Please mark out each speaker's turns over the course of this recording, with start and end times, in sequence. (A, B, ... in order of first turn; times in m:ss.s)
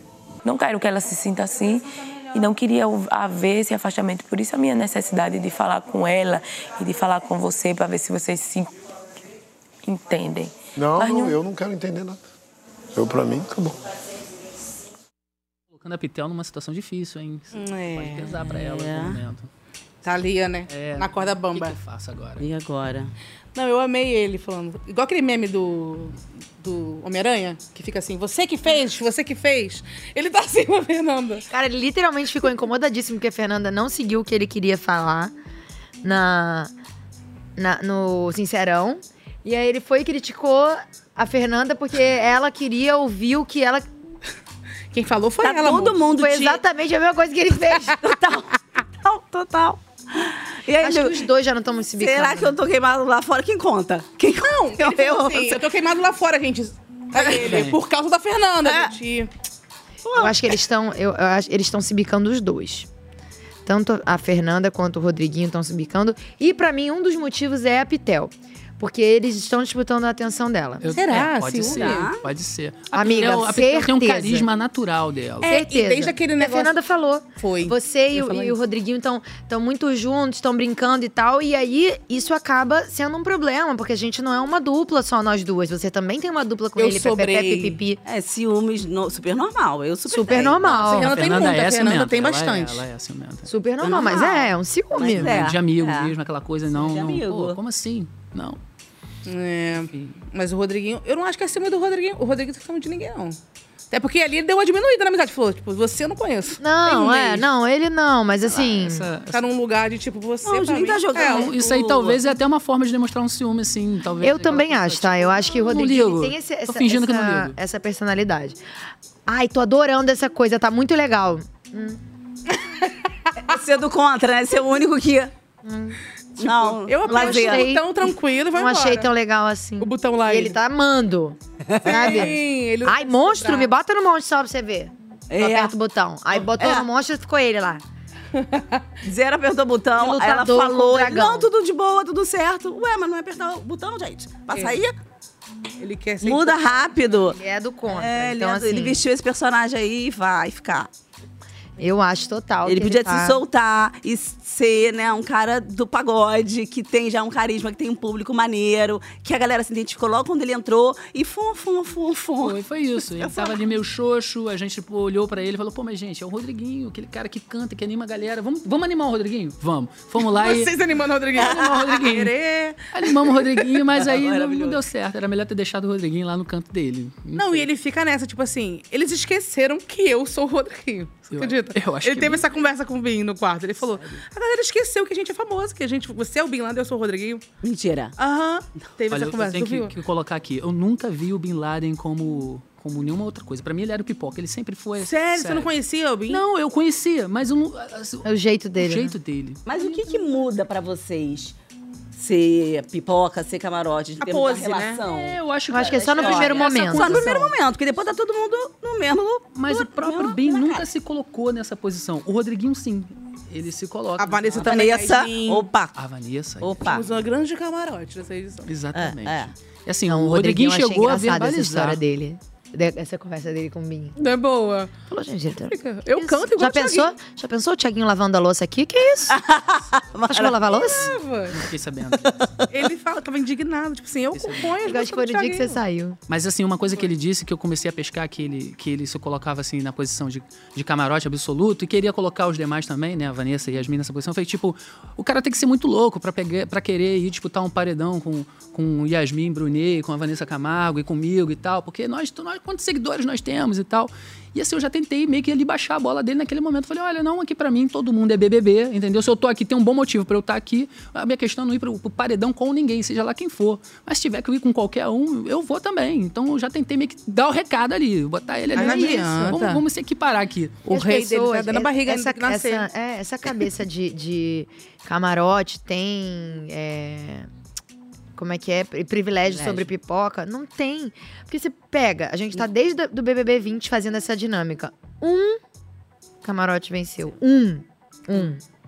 0:00.4-0:08.7 A
0:09.8-0:11.4 A
0:10.8-0:12.2 B
0:12.9-0:13.8 B
0:15.7-0:19.5 C
0:17.5-0:18.2 D
0:18.4-0:19.2 E
0:20.0-0:21.8 D
0:20.7-0:22.4 C
0:22.4-0:23.1 E
0:23.6-0:31.4 D
0:31.5-0:35.3 F
0:36.0-0:36.7 F
0:37.6-0:43.9 F
0:44.9-0:46.0 D
0:45.4-0:46.6 E
0:46.0-0:48.2 F
0:48.0-0:48.5 E
0:49.0-0:51.3 E
0:50.8-0:52.6 F
0:52.0-0:55.7 E
0:54.4-0:59.3 D
0:57.2-0:57.6 E
0:57.4-0:57.8 C
0:58.6-0:58.9 E
1:00.0-1:00.6 E
1:00.2-1:02.9 F
1:03.6-1:10.8 F
1:10.8-1:15.5 C
1:10.9-1:12.1 D
1:11.6-1:12.2 E
1:12.9-1:14.5 F
1:15.4-1:16.7 D
1:15.5-1:28.0 F
1:17.4-1:17.8 D
1:18.1-1:18.6 C
1:26.8-1:27.8 D
1:28.0-1:30.8 E
1:30.1-1:31.2 F
1:30.6-1:32.8 D
1:31.0-1:33.5 C
1:33.5-1:35.4 F
1:33.8-1:36.1 E
1:35.1-1:38.6 C
1:36.7-1:37.6 E
1:39.2-1:43.4 D
1:43.9-1:47.5 D
1:46.6-1:49.1 F
1:48.5-1:49.4 C
1:49.3-1:51.5 D
1:50.4-1:52.2 E
1:51.3-1:57.6 C
1:54.2-1:58.6 F
1:59.3-2:02.0 F
2:03.5-2:05.3 E
2:05.6-2:06.0 F
2:06.4-2:07.7 E
2:06.5-2:09.1 D
2:07.1-2:17.8 F
2:09.8-2:10.6 D
2:11.7-2:12.3 E
2:11.8-2:13.7 D
2:15.3-2:15.7 E
2:16.3-2:16.9 E
2:18.4-2:18.6 D
2:19.0-2:25.0 E
2:20.0-2:21.5 F
2:24.5-2:24.8 D
2:25.8-2:26.9 D
2:26.2-2:30.9 E
2:27.3-2:29.0 F
2:31.8-2:33.4 F
2:32.6-2:42.6 E
2:42.4-2:50.7 C
2:43.2-2:43.6 E
2:50.2-2:52.9 D
2:51.4-2:52.3 C
2:51.4-2:51.9 E
2:52.9-2:57.7 C
2:54.0-2:54.8 E
2:57.4-3:07.4 D
3:01.3-3:02.5 C
3:07.6-3:08.2 E
3:08.2-3:09.9 D
3:09.1-3:15.7 C
3:15.0-3:16.4 D
3:16.3-3:20.2 C
3:18.2-3:19.1 F
3:19.7-3:21.6 E
3:22.2-3:25.4 E
3:24.2-3:25.0 D
3:25.1-3:27.6 C
3:25.7-3:27.3 F
3:26.2-3:30.9 E
3:29.5-3:34.9 C
3:34.2-3:35.7 D
3:34.6-3:36.0 E
3:36.0-3:36.9 C
3:36.6-3:37.1 E
3:36.9-3:38.7 D
3:38.6-3:42.0 C
3:38.9-3:39.5 E
3:40.1-3:44.2 F
3:44.2-3:44.9 D
3:45.1-3:49.4 F
3:45.7-3:47.2 D
3:49.3-3:50.8 E
3:50.3-3:51.2 F
3:50.8-3:51.6 D
3:51.5-3:52.4 C
3:52.2-3:52.5 E
3:52.7-3:55.8 D
3:54.3-3:54.7 C
3:54.8-3:56.2 F
3:56.3-4:30.8 C
4:28.8-4:29.4 F
4:28.8-4:29.8 D
4:30.8-4:32.9 D
4:30.9-4:37.5 F
4:38.4-4:45.6 F
4:39.5-4:39.8 E
4:46.4-4:48.6 F